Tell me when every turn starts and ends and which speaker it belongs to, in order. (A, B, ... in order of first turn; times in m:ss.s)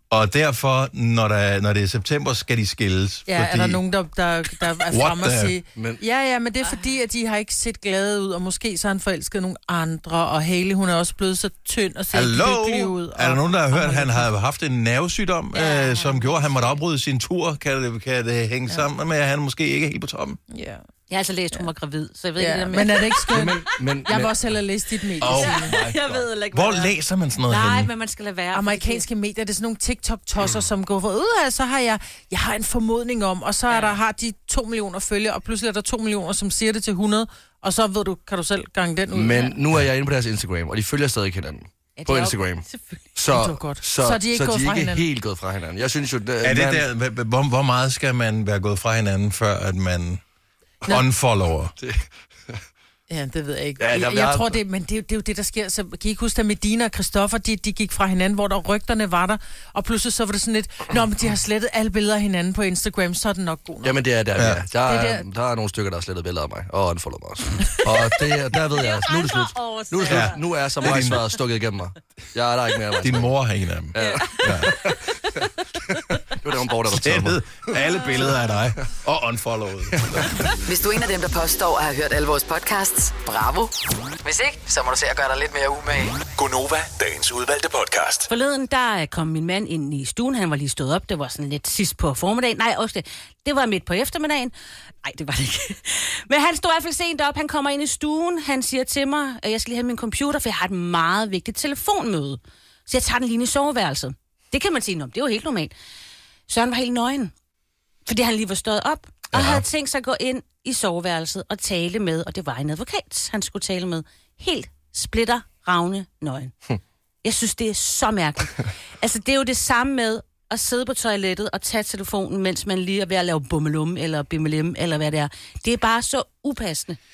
0:00.1-0:03.8 A
0:03.3-0:14.3 B
0:04.9-0:05.6 A
0:05.8-0:06.0 C
0:12.1-0:20.4 A
0:15.5-0:16.8 D
0:20.5-0:20.8 B
0:21.1-0:23.4 D
0:22.4-0:25.7 B
0:23.3-0:24.4 C
0:25.2-0:27.9 A
0:25.2-0:26.9 D
0:27.4-0:29.0 D
0:28.5-0:39.5 B
0:33.7-0:34.0 D
0:39.1-0:46.8 C
0:42.0-0:43.0 D
0:43.3-0:45.0 B
0:46.4-0:50.2 A
0:50.8-0:51.7 A
0:51.8-0:52.6 C
0:53.1-1:04.0 B
0:53.8-0:54.6 C
1:03.8-1:13.4 C
1:04.4-1:04.6 A
1:04.8-1:05.2 B
1:08.7-1:11.2 D
1:10.1-1:11.2 A
1:13.0-1:14.8 A
1:13.9-1:15.0 C
1:14.0-1:15.5 D
1:15.8-1:17.4 C
1:16.9-1:20.4 A
1:19.9-1:20.5 C
1:20.6-1:26.2 E
1:26.3-1:28.3 F
1:28.3-1:34.5 D
1:35.0-1:45.7 D
1:46.5-1:47.3 D
1:48.0-1:56.5 D
1:49.3-1:49.6 A
1:57.2-2:07.0 D